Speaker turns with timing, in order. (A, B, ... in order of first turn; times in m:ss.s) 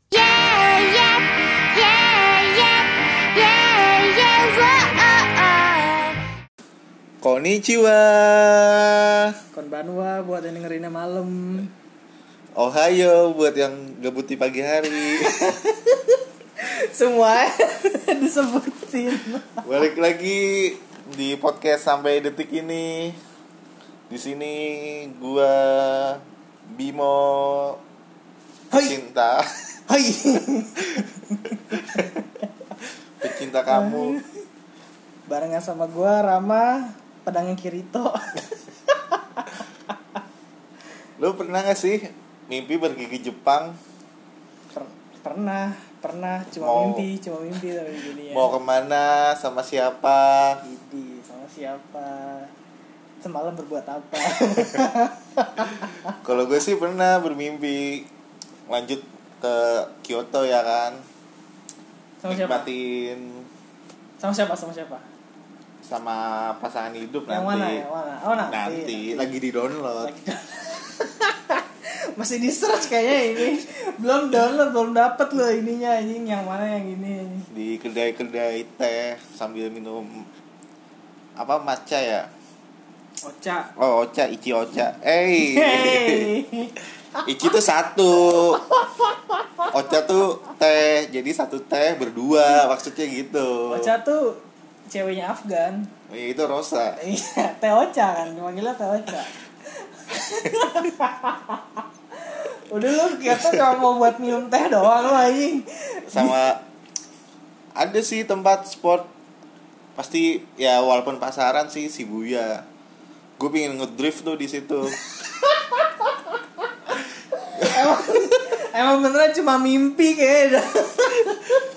0:00.1-0:06.2 A
0:07.2-0:09.3 B
0:09.5-0:11.7 C
0:12.6-0:15.6 B
0:15.3-0:15.7 C
0:16.6-0:19.6 C
0:19.6-0:23.2 B
0:24.1-0:27.8 B
0:28.7-0:29.6 B
0:29.9-0:32.4 C
0:33.2-0:34.2 B
0:33.7-0:34.3 C
0:35.3-0:39.6 C
0:41.2-0:43.8 B
0:44.7-0:48.5 C
0:46.6-0:47.1 B
0:48.3-0:50.6 B
0:50.6-0:52.5 C
0:53.2-0:56.1 C
0:56.2-0:58.1 B
0:58.7-1:01.0 B
1:02.2-1:02.7 C
1:02.3-1:03.5 B
1:04.2-1:05.0 C
1:05.8-1:07.9 B
1:07.3-1:09.3 C
1:08.4-1:10.1 B
1:10.0-1:17.5 C
1:17.5-1:20.3 B
1:21.4-1:22.3 B
1:23.2-1:23.7 C
1:23.8-1:26.3 B
1:25.4-1:26.8 C
1:27.2-1:28.6 B
1:28.4-1:29.7 C
1:29.7-1:33.9 B
1:33.7-1:35.9 C
1:36.1-1:37.0 B
1:37.0-1:46.4 C
1:43.3-1:43.6 B
1:46.1-1:46.6 B
1:47.8-1:49.1 B
1:50.0-1:52.6 B
1:53.4-1:55.0 B
1:55.4-1:56.3 C
1:57.4-2:01.7 C